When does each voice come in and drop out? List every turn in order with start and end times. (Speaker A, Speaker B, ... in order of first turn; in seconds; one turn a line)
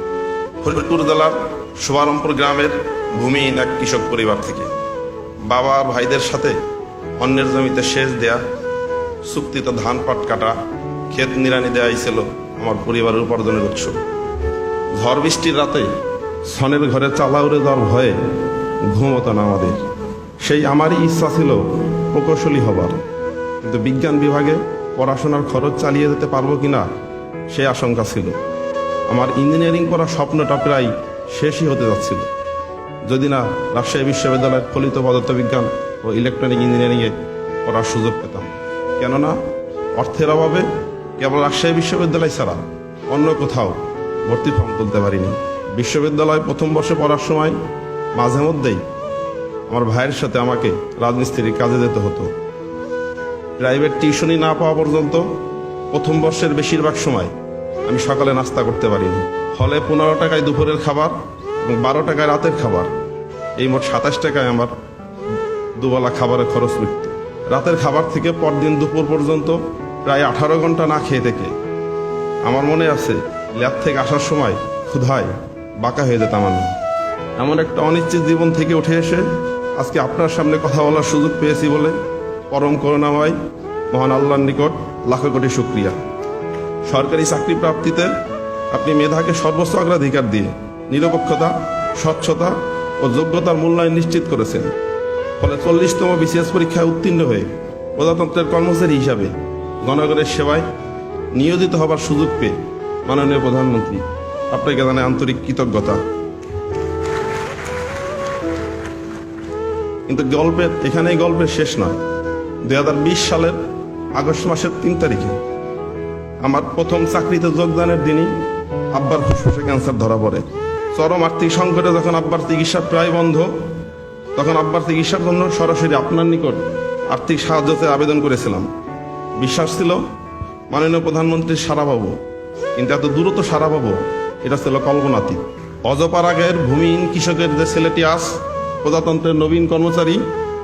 Speaker A: 0.6-4.7
Speaker A: 5.5-6.5
Speaker A: 7.2-8.4
Speaker A: 9.3-10.5
Speaker A: 11.1-14.0
Speaker A: 15.0-15.9
Speaker A: 16.5-18.1
Speaker A: 18.9-19.8
Speaker A: 20.4-23.0
Speaker A: 23.6-26.9
Speaker A: 27.5-28.4
Speaker A: 29.1-32.3
Speaker A: 33.1-39.4
Speaker A: 40.0-40.7
Speaker A: 41.2-47.6
Speaker A: 48.1-48.8
Speaker A: 49.7-52.3
Speaker A: 53.6-55.2
Speaker A: 55.9-57.3
Speaker A: 57.8-62.9
Speaker A: 63.6-64.7
Speaker A: 65.8-71.5
Speaker A: 72.4-76.7
Speaker A: 77.4-82.0
Speaker A: 82.5-83.4
Speaker A: 83.9-86.0
Speaker A: 86.8-88.1
Speaker A: 88.7-94.7
Speaker A: 95.4-100.7
Speaker A: 101.3-106.0
Speaker A: 110.1-112.0
Speaker A: 112.7-113.6
Speaker A: 114.1-115.4
Speaker A: 116.4-118.3
Speaker A: 118.9-123.5
Speaker A: 124.3-128.7
Speaker A: 129.4-130.0
Speaker A: 130.7-132.2
Speaker A: 132.8-140.2